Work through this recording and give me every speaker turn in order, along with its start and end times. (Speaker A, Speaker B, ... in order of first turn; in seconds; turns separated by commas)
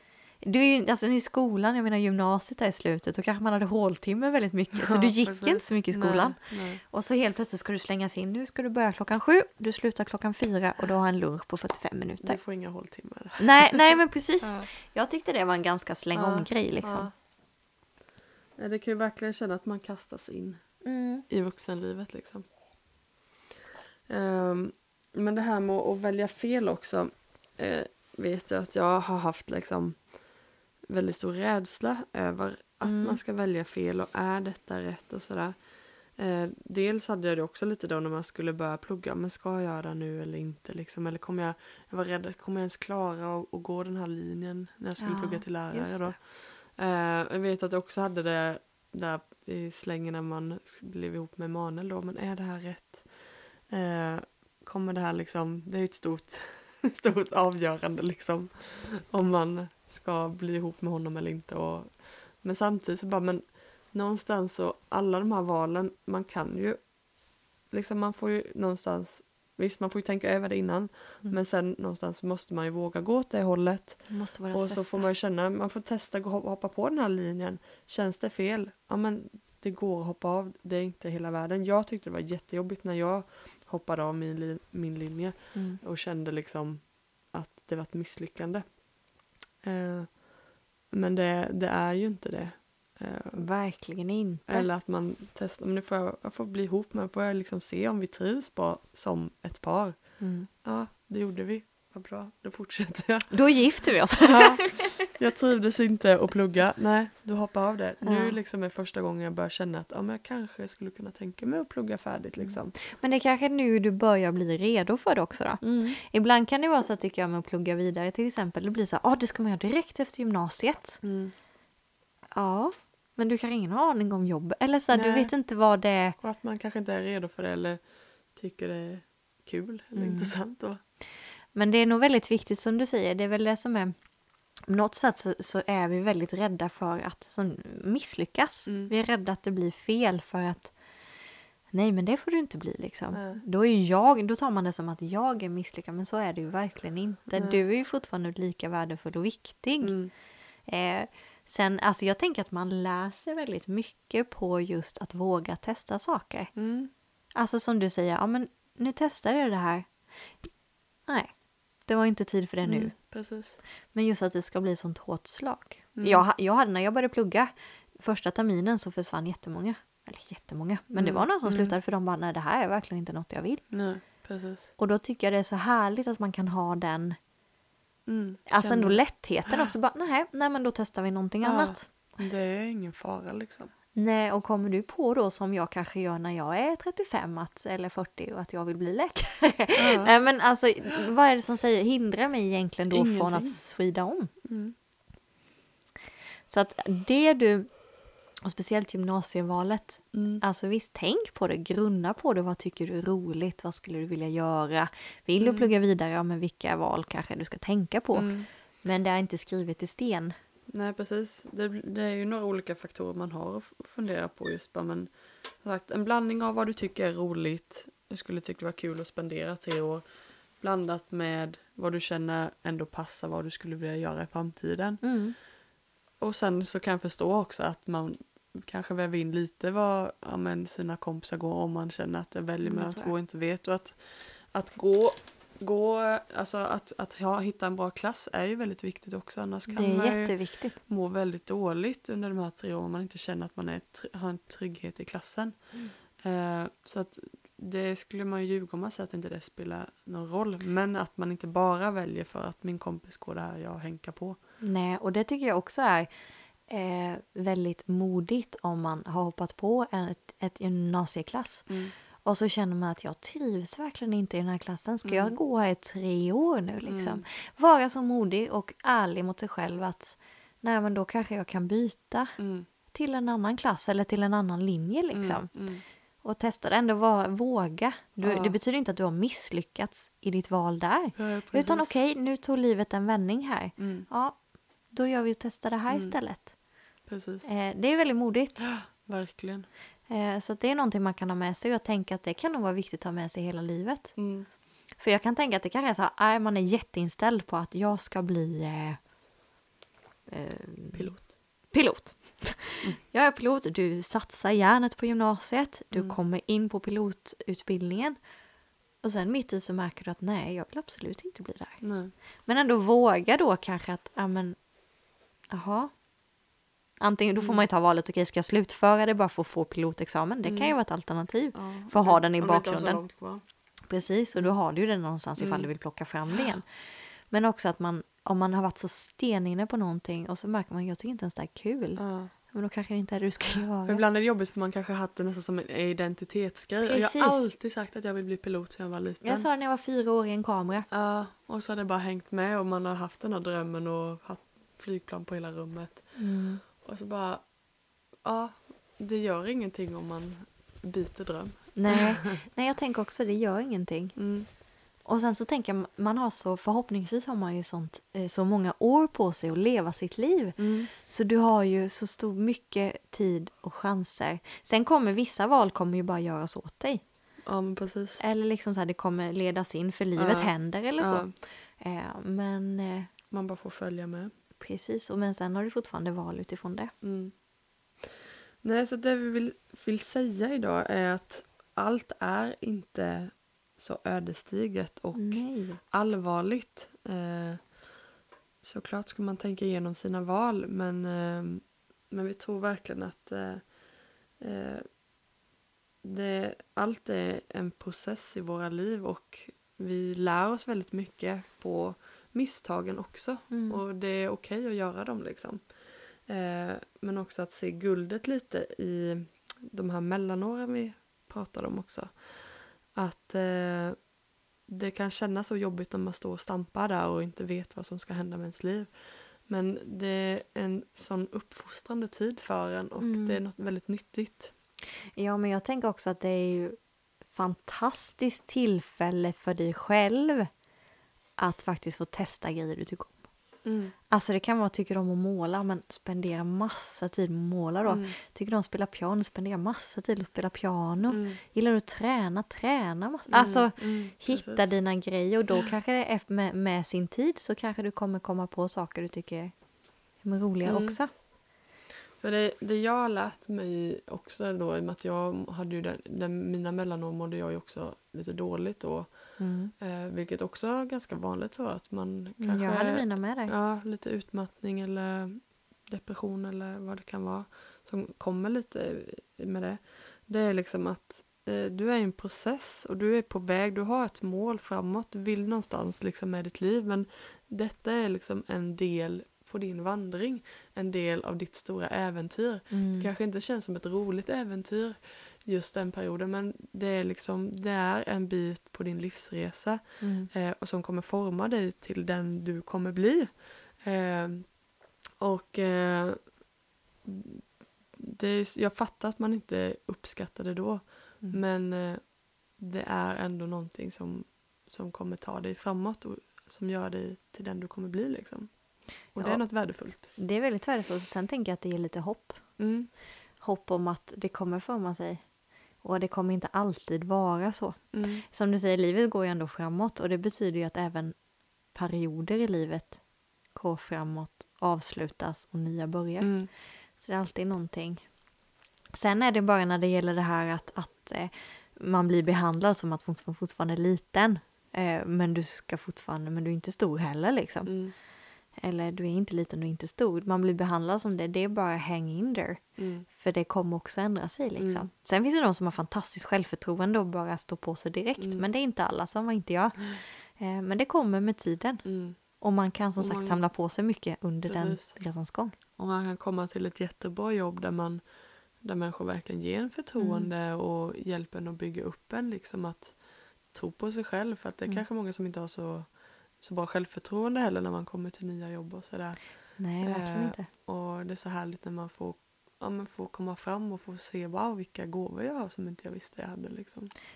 Speaker A: 0.4-12.4, Speaker B: 4.8-6.8, Speaker B: 12.2-14.7, Speaker A: 13.4-17.1, Speaker B: 16.1-17.1, Speaker B: 18.6-22.5, Speaker A: 20.8-21.3, Speaker B: 24.1-30.2, Speaker B: 30.9-67.1, Speaker A: 32.8-33.2, Speaker A: 45.0-46.2, Speaker B: 67.6-88.8, Speaker A: 74.1-75.1, Speaker A: 85.5-85.8, Speaker B: 89.6-90.2, Speaker B: 90.9-93.5, Speaker A: 93.3-94.7, Speaker B: 94.5-112.8, Speaker A: 100.2-100.5, Speaker A: 103.3-104.9, Speaker A: 108.0-108.4, Speaker A: 112.4-121.0, Speaker B: 115.6-116.0, Speaker B: 121.0-121.3, Speaker A: 122.3-126.2, Speaker B: 124.9-125.3, Speaker B: 126.2-130.8, Speaker A: 129.9-130.4, Speaker A: 131.5-134.0, Speaker A: 134.6-150.0, Speaker B: 138.7-138.9, Speaker B: 143.1-143.4, Speaker B: 147.3-147.6, Speaker B: 149.8-150.1, Speaker A: 150.6-156.6, Speaker B: 156.6-156.9, Speaker A: 157.3-163.0, Speaker B: 162.6-163.6, Speaker A: 163.9-173.7, Speaker B: 165.9-166.2, Speaker B: 170.9-171.8, Speaker B: 173.7-174.7, Speaker A: 174.8-177.2, Speaker B: 178.1-179.7, Speaker A: 178.5-181.9, Speaker B: 181.4-183.7, Speaker A: 183.9-194.3, Speaker B: 189.8-190.1, Speaker B: 192.9-193.6, Speaker B: 194.4-194.8, Speaker A: 196.5-210.3, Speaker B: 200.1-200.4, Speaker B: 205.4-205.7, Speaker B: 208.1-208.5, Speaker B: 210.7-220.0, Speaker B: 220.6-225.1, Speaker A: 225.0-225.4, Speaker B: 226.2-254.4, Speaker A: 232.6-233.1, Speaker A: 239.7-240.8, Speaker A: 254.6-272.4, Speaker B: 261.7-261.9, Speaker B: 265.0-265.4, Speaker B: 266.8-267.2, Speaker B: 272.4-272.7, Speaker A: 272.9-275.7, Speaker B: 275.1-275.8, Speaker A: 276.2-286.6, Speaker B: 278.2-278.6, Speaker B: 281.2-281.9, Speaker B: 283.8-284.1, Speaker B: 285.9-286.2, Speaker B: 287.1-287.6, Speaker A: 287.4-288.7, Speaker B: 288.6-289.7, Speaker A: 290.1-294.2, Speaker B: 294.2-294.5, Speaker A: 294.9-299.0, Speaker A: 300.3-308.3, Speaker B: 300.9-301.3, Speaker A: 309.0-314.7, Speaker B: 311.8-312.1, Speaker A: 315.5-316.0, Speaker A: 317.0-323.0, Speaker B: 317.4-317.6, Speaker B: 320.4-320.8, Speaker B: 321.5-323.4, Speaker A: 323.9-334.0, Speaker B: 325.4-325.7, Speaker B: 332.0-332.3, Speaker B: 333.9-339.5, Speaker A: 336.8-337.4, Speaker A: 339.2-340.9, Speaker B: 340.9-347.6, Speaker A: 346.2-346.6, Speaker B: 348.1-352.4, Speaker A: 351.8-354.3, Speaker B: 354.2-354.5, Speaker A: 355.0-367.0, Speaker B: 360.6-360.9, Speaker B: 367.4-368.2, Speaker A: 368.2-373.1, Speaker B: 370.2-371.3, Speaker B: 373.3-374.3, Speaker A: 374.6-376.9, Speaker B: 377.0-377.4, Speaker B: 378.6-387.8, Speaker A: 385.1-385.8, Speaker B: 388.6-393.8, Speaker B: 394.4-394.9, Speaker B: 396.0-414.1, Speaker A: 403.5-403.8, Speaker B: 414.7-424.5, Speaker A: 423.0-423.4, Speaker A: 425.2-430.5, Speaker A: 431.4-451.1, Speaker B: 433.6-433.9, Speaker B: 437.9-438.1, Speaker B: 441.1-441.4, Speaker B: 443.3-444.7, Speaker B: 450.6-451.0, Speaker B: 452.2-494.6, Speaker A: 459.4-459.7, Speaker A: 462.4-463.5, Speaker A: 482.7-483.1, Speaker A: 490.0-490.3, Speaker B: 495.2-496.4, Speaker B: 497.0-510.1, Speaker A: 509.1-528.1, Speaker B: 512.6-512.9, Speaker B: 517.9-518.2, Speaker B: 526.2-526.5, Speaker A: 528.9-537.8, Speaker B: 537.7-538.0, Speaker A: 538.5-555.5, Speaker B: 542.8-543.1, Speaker B: 544.6-544.9, Speaker B: 548.2-548.5, Speaker B: 551.9-552.2, Speaker B: 553.0-553.4, Speaker B: 554.5-555.0, Speaker B: 555.8-576.9, Speaker A: 560.0-560.3, Speaker A: 569.6-570.5